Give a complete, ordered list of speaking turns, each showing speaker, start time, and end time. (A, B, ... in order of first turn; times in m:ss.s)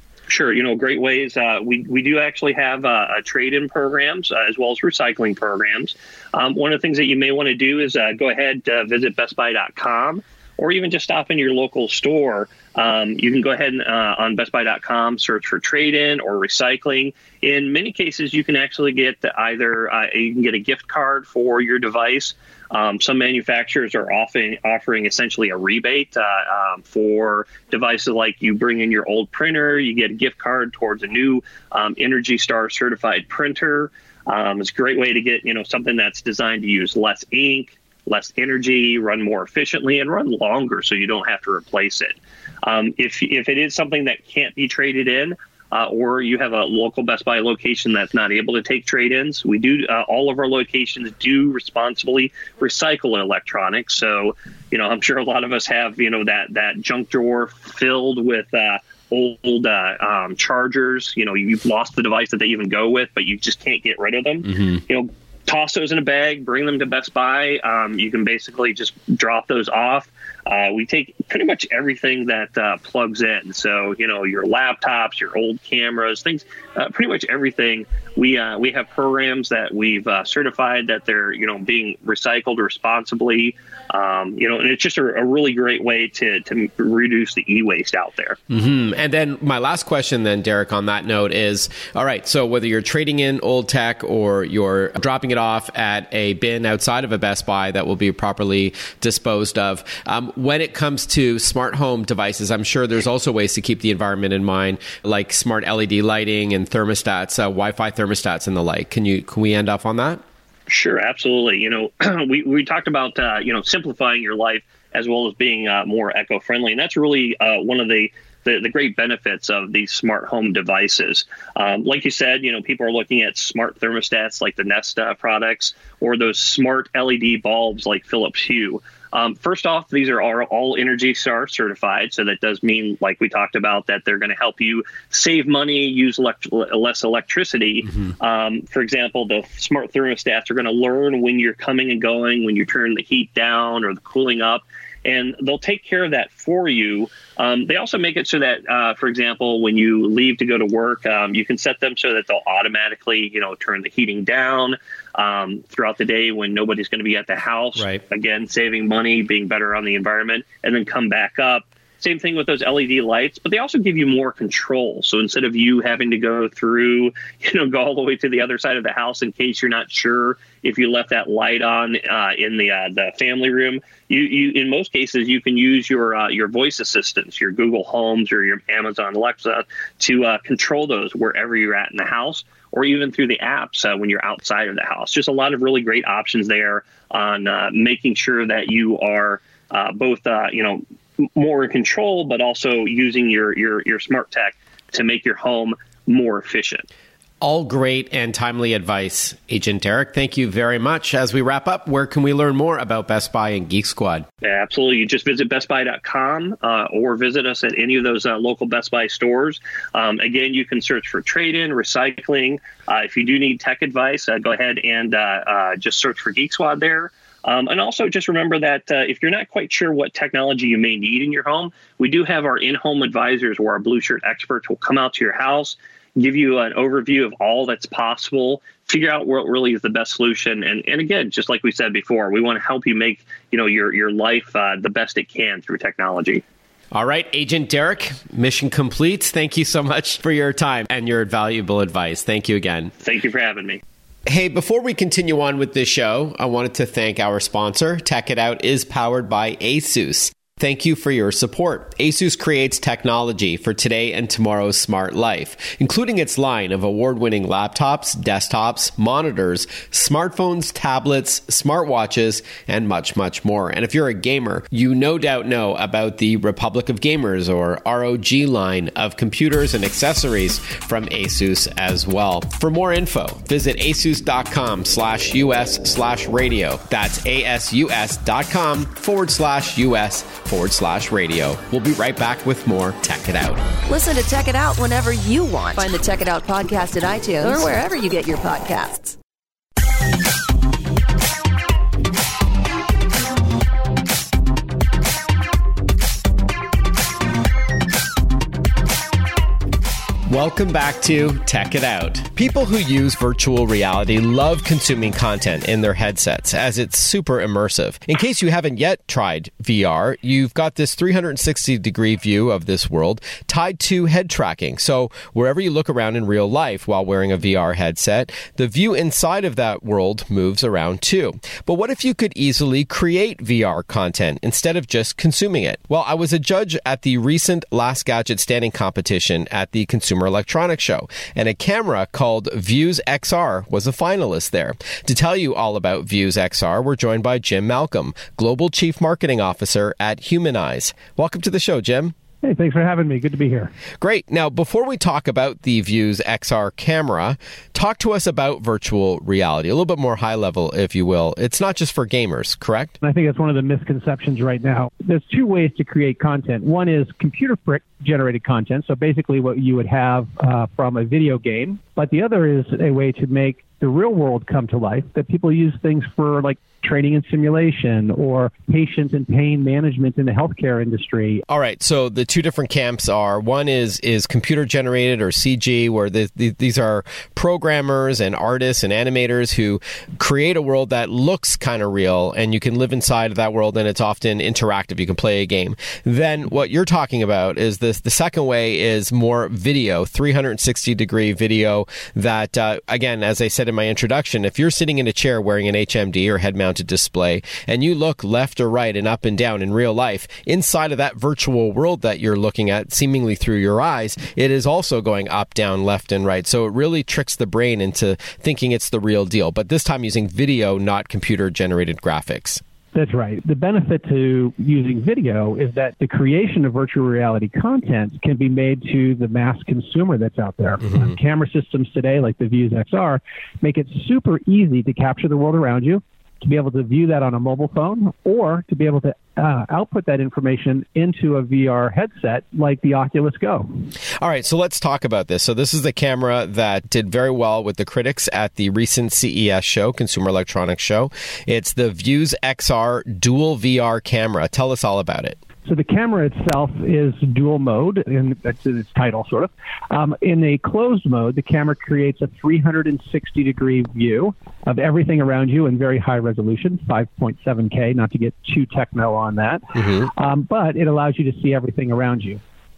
0:00.3-1:28.4 A
1:04.5-1:04.8 B
1:28.5-1:50.2 B
1:50.7-3:16.8 A
3:17.4-3:24.3 B
3:24.4-3:56.4 A
3:56.9-4:02.9 B
4:03.0-4:03.8 A
4:04.3-4:43.6 B
4:43.8-4:49.2 C
5:00.3-5:42.1 B
5:42.4-5:43.7 D
5:44.0-5:52.9 B
5:53.0-6:11.4 D
6:11.5-6:52.6 B
6:52.9-7:13.7 D
7:14.2-7:25.4 B
7:25.6-7:42.4 D
7:39.8-7:40.0 B